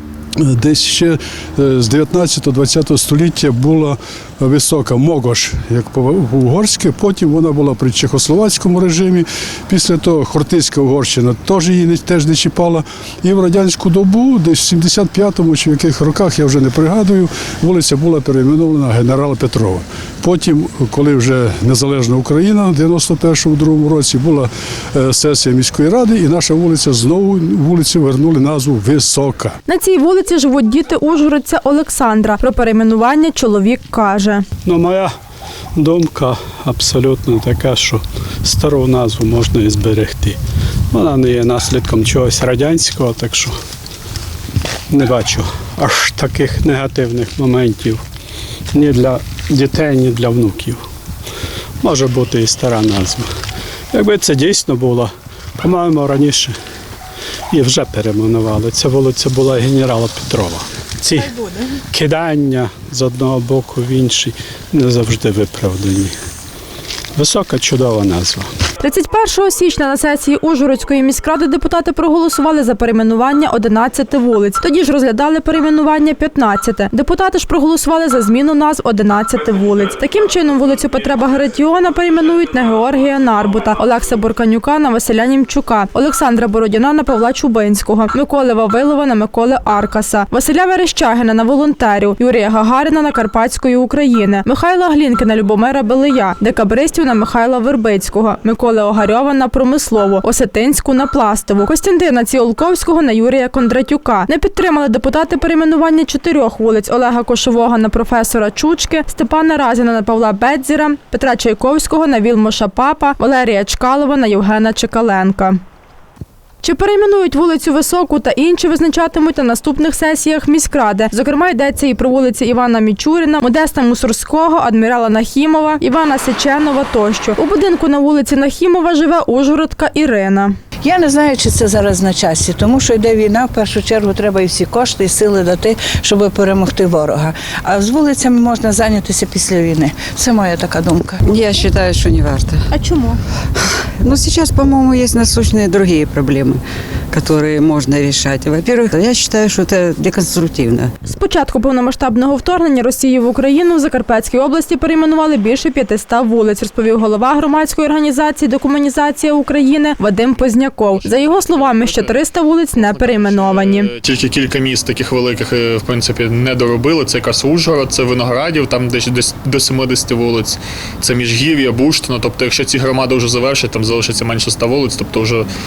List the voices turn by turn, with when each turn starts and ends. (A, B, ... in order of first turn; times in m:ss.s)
0:00.4-0:29.6 A
0:29.7-0:34.4 B
0:34.6-0:35.1 C
0:35.8-0:40.4 C
0:40.9-0:43.6 C
0:44.9-0:48.0 C
0:48.7-0:50.8 C
0:51.8-0:53.3 C
0:53.9-0:56.6 C
0:57.5-1:01.4 C
1:01.9-1:06.1 C
1:07.2-1:08.5 C
1:08.8-1:55.6 B
1:56.6-2:10.6 B
2:10.8-2:21.3 D
2:21.3-2:22.6 E
2:22.7-2:23.2 B
2:24.0-2:26.6 E
2:27.1-2:30.8 E
2:31.0-2:43.9 B
2:41.5-2:42.0 F
2:42.9-2:55.4 F